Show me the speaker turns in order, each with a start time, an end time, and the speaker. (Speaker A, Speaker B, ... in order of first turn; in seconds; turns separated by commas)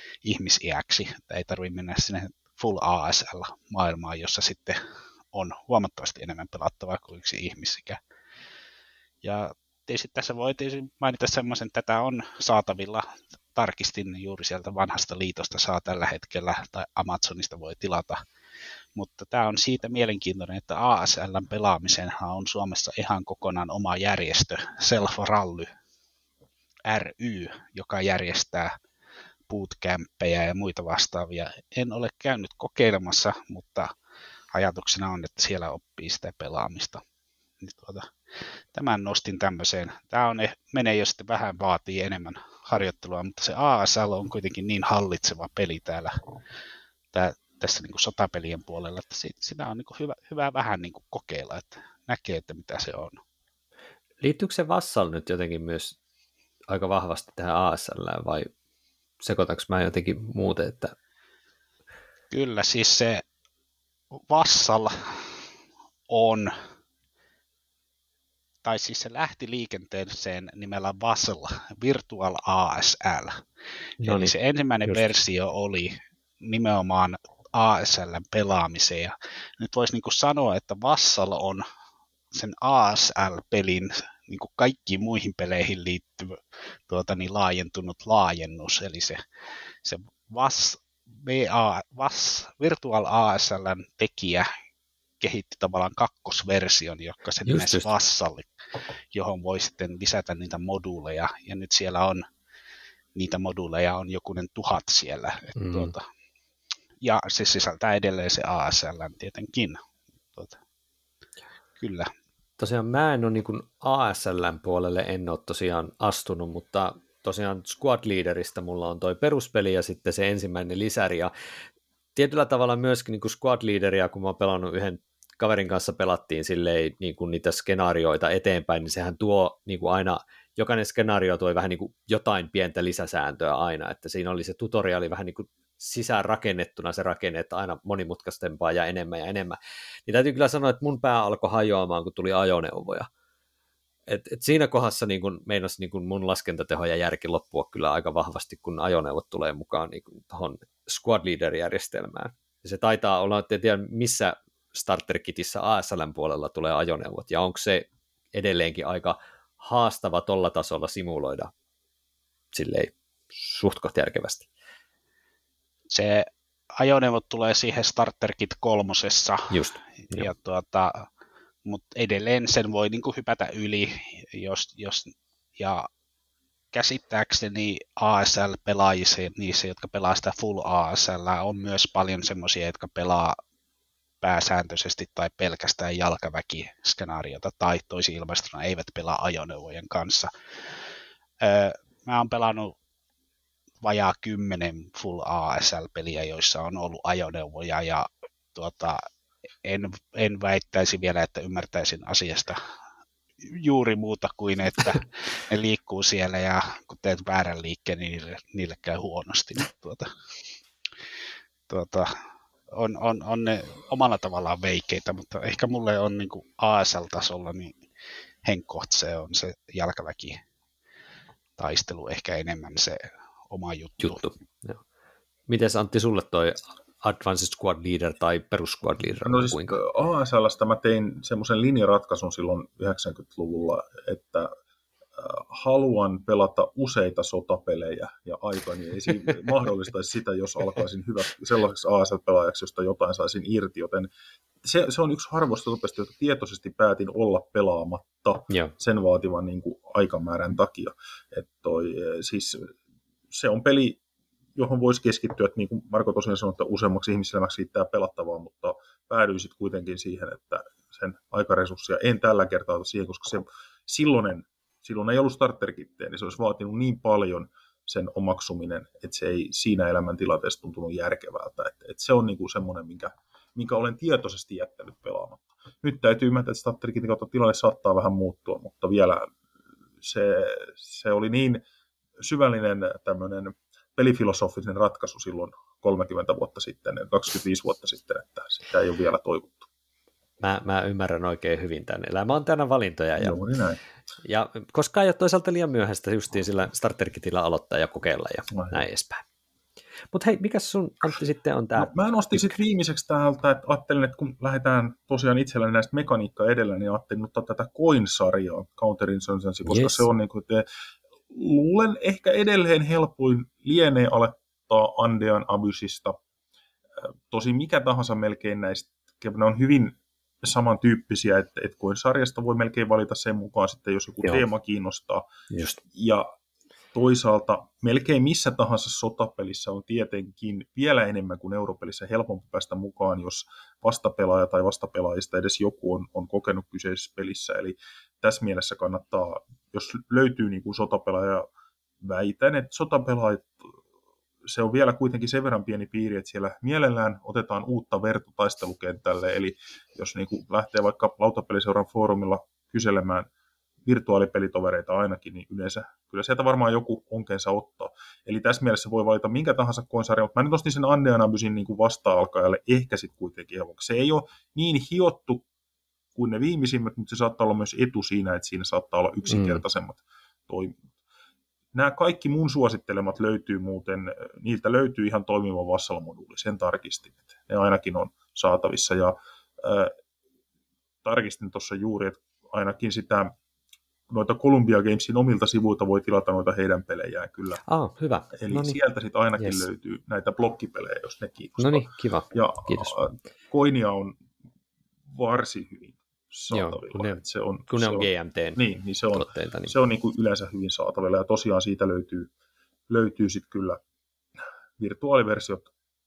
Speaker A: 0.2-4.8, Speaker A: 5.3-8.0, Speaker A: 9.2-18.2, Speaker A: 18.9-25.7, Speaker A: 26.9-28.8, Speaker A: 29.5-33.9, Speaker A: 34.5-37.0, Speaker A: 37.6-38.1, Speaker A: 38.7-46.2, Speaker A: 47.1-53.2, Speaker B: 54.2-56.0, Speaker B: 56.7-58.5, Speaker B: 59.2-60.9, Speaker A: 62.3-63.2, Speaker A: 64.1-65.3, Speaker A: 66.1-66.5, Speaker A: 68.6-73.4, Speaker B: 74.0-74.3, Speaker A: 74.0-81.6, Speaker B: 74.8-75.1, Speaker A: 82.3-89.2, Speaker A: 89.8-94.5, Speaker A: 95.2-98.5, Speaker B: 97.5-97.9, Speaker A: 99.1-102.2, Speaker A: 103.2-106.0, Speaker B: 105.5-105.9, Speaker A: 107.0-109.8, Speaker A: 111.8-112.1, Speaker B: 112.6-121.3, Speaker B: 122.1-143.1, Speaker B: 144.1-161.5, Speaker B: 162.5-164.5, Speaker A: 165.9-171.1, Speaker B: 169.5-170.3, Speaker A: 171.7-175.9, Speaker A: 176.7-183.4, Speaker A: 184.2-190.3, Speaker A: 191.4-192.8, Speaker A: 193.8-199.0, Speaker A: 199.6-202.6, Speaker A: 203.4-210.1, Speaker A: 211.7-212.1, Speaker A: 212.7-217.8, Speaker A: 218.4-220.4, Speaker A: 221.6-224.3, Speaker B: 224.0-224.8, Speaker B: 225.5-229.8, Speaker C: 229.2-234.5, Speaker C: 235.2-244.1, Speaker C: 244.6-252.7, Speaker C: 253.3-254.0, Speaker C: 254.6-279.3, Speaker C: 280.0-281.6, Speaker C: 282.2-289.7, Speaker B: 290.4-293.4, Speaker C: 293.2-293.8, Speaker B: 294.2-299.2, Speaker B: 300.1-302.5, Speaker C: 301.8-310.6, Speaker B: 309.6-310.1, Speaker C: 311.3-316.2, Speaker C: 317.0-325.2, Speaker B: 325.5-325.8, Speaker C: 325.9-326.3, Speaker C: 326.9-341.5, Speaker C: 342.0-343.7, Speaker C: 344.4-353.3, Speaker C: 353.8-365.4, Speaker C: 366.1-370.8, Speaker B: 369.2-369.6, Speaker C: 371.7-379.9, Speaker C: 381.0-383.3, Speaker C: 384.1-387.6, Speaker B: 387.7-388.8, Speaker C: 388.4-394.2, Speaker B: 389.4-389.6, Speaker B: 391.6-392.9, Speaker C: 395.1-402.3, Speaker B: 396.5-398.6, Speaker B: 399.1-399.7, Speaker C: 402.9-403.8, Speaker C: 404.8-405.7